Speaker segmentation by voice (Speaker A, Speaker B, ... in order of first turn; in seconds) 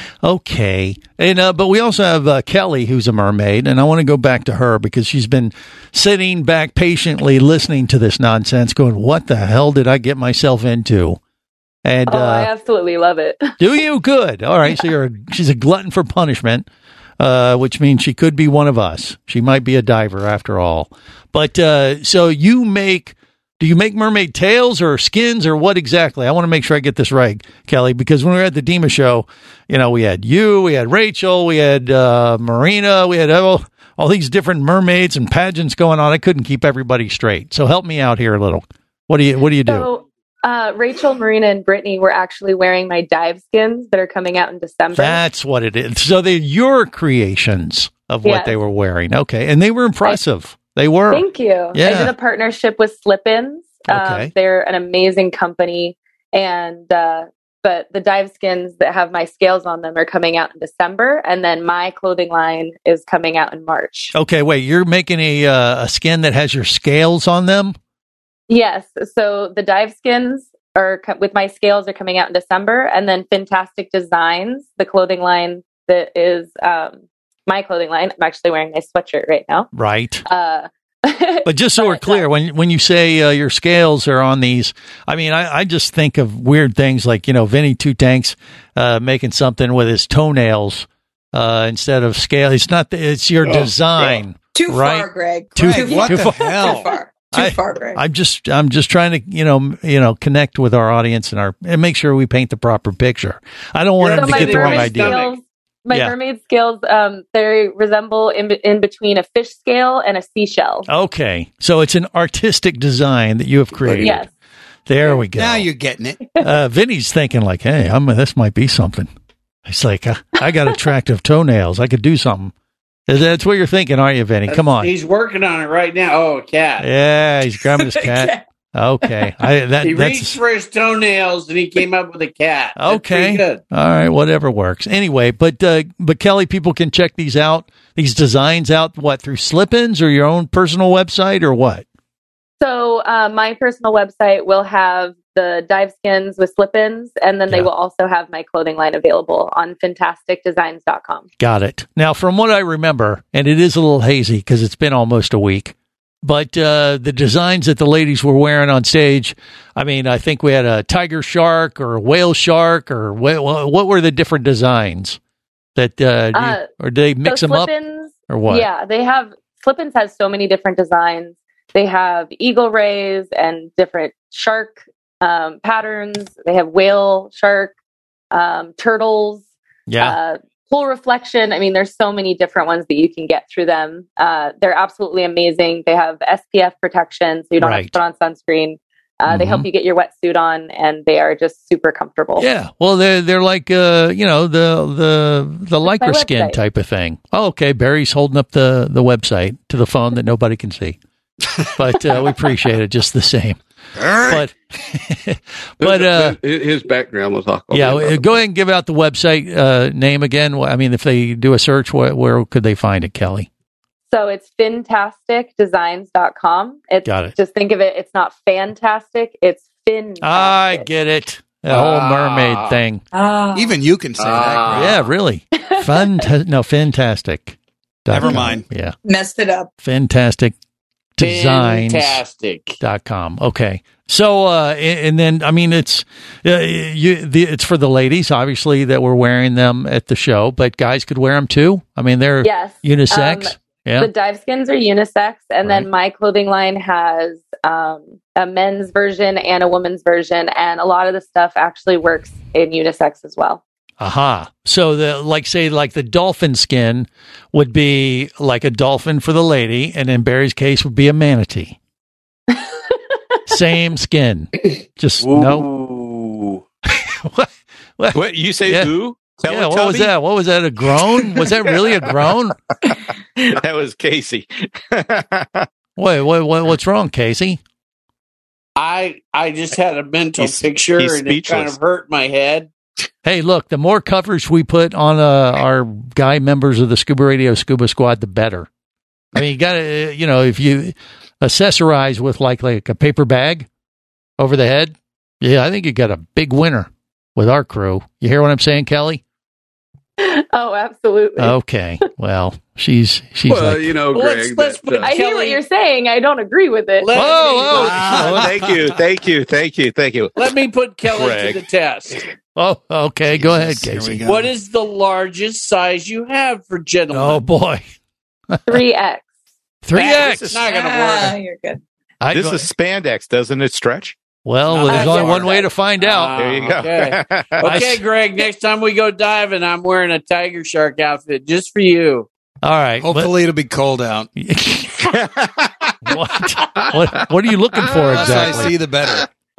Speaker A: 0.2-11.2, 11.8-12.5, 13.6-16.7, 17.2-39.9, 44.9-52.1, 53.9-54.3, 64.1-67.8, 79.7-80.2, 81.5-96.8, 97.3-105.2, 105.9-106.1, 110.9-114.2, 114.9-115.7, 116.4-119.1, 119.7-122.5, 123.1-124.9, 126.8-130.4, 132.8-141.8, 151.4-165.2, 165.8-167.7, 168.3-168.7, 179.9-180.2, 187.6-187.9, 189.3-189.7, 192.4-201.0, 201.8-203.6, 204.2-206.4, 207.7-213.5, 217.0-217.3, 220.2-223.0, 224.7-228.9, 229.8-230.5, 231.2-232.2, 232.8-244.1, 254.0-261.8, 263.5-265.7, 266.9-268.9, 269.5-272.6, 276.0-277.6, 283.2-288.7, 289.3-293.7, 294.4-299.2, 301.4-304.0, 307.1-308.6, 312.6-314.2, 317.1-317.8, 318.5-318.8, 319.8-320.6, 322.2-322.7, 324.4-326.4, 327.6-328.0, 332.6-333.3, 334.4-335.1, 336.0-338.8
Speaker B: 12.1-13.5, 39.6-45.2, 48.2-48.5, 51.1-64.1, 68.5-79.7, 80.2-82.3, 104.0-110.9, 113.9-114.3, 142.6-151.3, 166.3-166.7, 167.2-177.7, 178.3-179.4, 180.0-192.5, 195.8-196.6, 214.1-220.9, 223.1-223.6, 225.6-226.2, 242.4-253.6, 262.5-262.9, 300.2-301.5, 305.0-307.6, 318.6-319.3
Speaker C: 94.5-98.0, 229.0-229.7, 320.7-321.8
Speaker D: 95.6-96.9, 115.0-116.2, 204.0-204.4, 223.5-224.9, 228.1-228.6, 307.7-309.0, 313.3-314.5, 333.0-334.3, 338.0-339.2
Speaker E: 104.0-105.3, 124.5-126.9, 129.8-133.6, 221.7-222.8, 224.2-225.1, 231.2-232.8, 265.3-266.1, 278.8-282.7, 304.1-305.6, 307.0-308.3, 310.4-312.2, 314.2-317.4, 319.9-321.4, 324.8-332.3
Speaker F: 205.8-208.4, 303.5-305.1
Speaker G: 268.1-270.1, 271.2-271.9, 273.4-275.7, 280.4-281.8, 307.8-310.4, 311.0-311.6, 320.3-320.6, 322.3-324.2, 326.3-327.8, 335.1-335.7